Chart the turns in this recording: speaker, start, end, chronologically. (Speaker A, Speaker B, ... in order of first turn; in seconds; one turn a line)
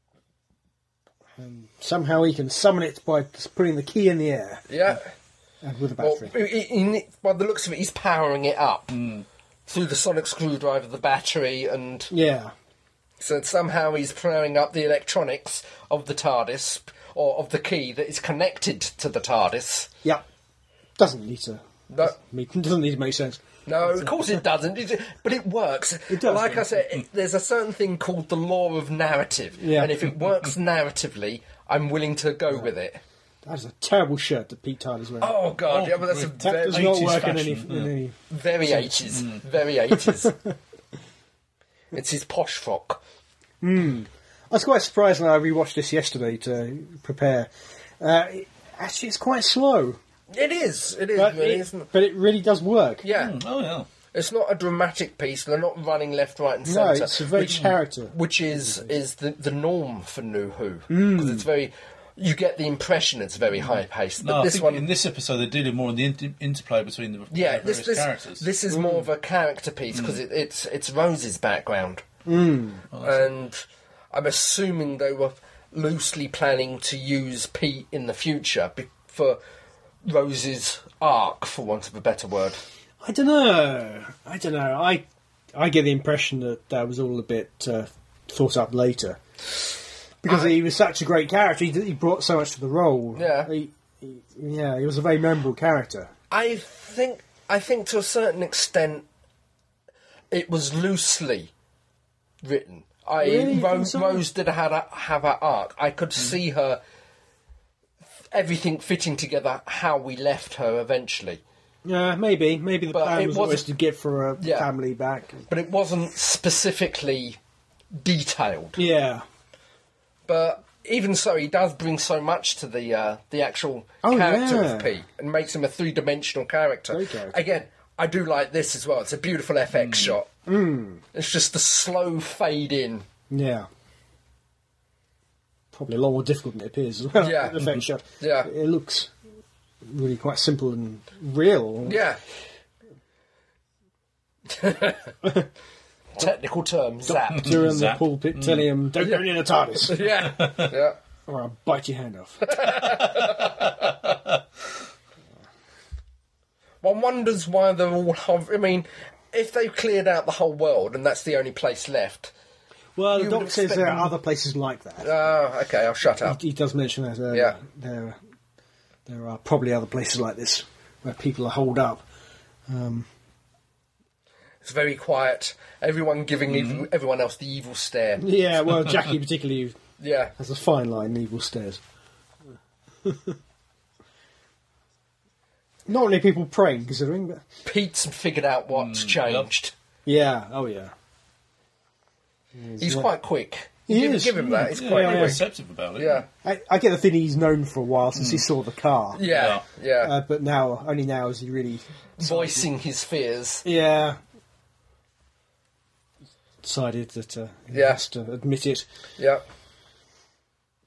Speaker A: 1.4-5.0
Speaker B: 4.7-5.0
Speaker A: 5.6-6.3
Speaker B: 6.0-8.9
Speaker C: 8.9-9.2
Speaker B: 9.7-12.1
Speaker A: 12.1-12.5
Speaker B: 13.2-19.9
Speaker A: 21.0-24.4
Speaker B: 21.9-22.2
Speaker B: 23.6-33.0
Speaker A: 26.1-26.7
Speaker A: 29.6-29.9
Speaker A: 33.4-35.4
Speaker B: 35.2-37.0
Speaker C: 35.7-37.9
Speaker A: 36.4-39.1
Speaker B: 38.3-40.4
Speaker C: 39.1-39.4
Speaker A: 39.9-40.5
Speaker B: 41.9-43.0
Speaker A: 43.6-50.0
Speaker B: 50.3-51.9
Speaker A: 51.1-53.0
Speaker B: 53.0-53.4
Speaker C: 53.1-53.9
Speaker B: 54.1-64.8
Speaker A: 56.6-58.9
Speaker C: 57.4-57.7
Speaker A: 60.9-61.5
Speaker C: 64.2-68.5
Speaker B: 67.3-72.0
Speaker A: 68.7-69.1
Speaker C: 69.9-70.2
Speaker A: 72.3-72.8
Speaker C: 72.9-73.3
Speaker B: 73.0-79.4
Speaker B: 80.0-82.6
Speaker A: 83.0-89.2
Speaker A: 90.2-96.1
Speaker B: 90.3-90.5
Speaker B: 93.1-93.5
Speaker B: 96.3-99.1
Speaker B: 100.3-101.5
Speaker B: 102.4-106.8
Speaker A: 103.2-104.2
Speaker B: 108.3-111.4
Speaker A: 111.8-115.4
Speaker B: 112.9-113.6
Speaker B: 114.4-114.7
Speaker B: 115.5-117.4
Speaker B: 118.0-118.8
Speaker A: 118.8-119.2
Speaker B: 120.3-130.3
Speaker A: 124.0-124.9
Speaker A: 126.9-127.4
Speaker C: 129.7-130.2
Speaker A: 130.4-131.0
Speaker B: 131.1-133.1
Speaker A: 133.3-133.7
Speaker A: 135.7-139.1
Speaker B: 137.2-138.5
Speaker A: 139.8-142.1
Speaker B: 141.8-142.2
Speaker B: 144.5-145.0
Speaker A: 145.2-145.5
Speaker B: 146.2-147.6
Speaker A: 147.3-150.0
Speaker C: 147.3-148.7
Speaker B: 149.8-151.0
Speaker C: 150.1-150.7
Speaker A: 151.3-152.6
Speaker B: 152.4-154.0
Speaker B: 156.8-162.3
Speaker A: 162.9-165.1
Speaker B: 163.1-164.1
Speaker B: 165.0-166.4
Speaker A: 166.2-168.2
Speaker B: 167.3-167.6
Speaker A: 169.1-172.1
Speaker A: 172.7-173.1
Speaker B: 174.6-178.2
Speaker C: 176.5-176.8
Speaker A: 178.2-179.8
Speaker B: 180.0-180.3
Speaker A: 180.4-181.8
Speaker A: 183.0-183.4
Speaker A: 185.9-187.4
Speaker B: 187.7-189.7
Speaker C: 188.7-189.5
Speaker A: 190.1-190.9
Speaker A: 192.6-193.1
Speaker B: 192.8-195.4
Speaker A: 193.9-195.4
Speaker C: 194.4-196.2
Speaker B: 196.0-196.3
Speaker A: 196.4-199.2
Speaker C: 198.1-198.4
Speaker B: 199.1-200.1
Speaker C: 199.2-199.6
Speaker A: 200.0-202.7
Speaker B: 202.2-203.6
Speaker A: 203.6-204.2
Speaker A: 206.6-208.8
Speaker B: 207.7-208.0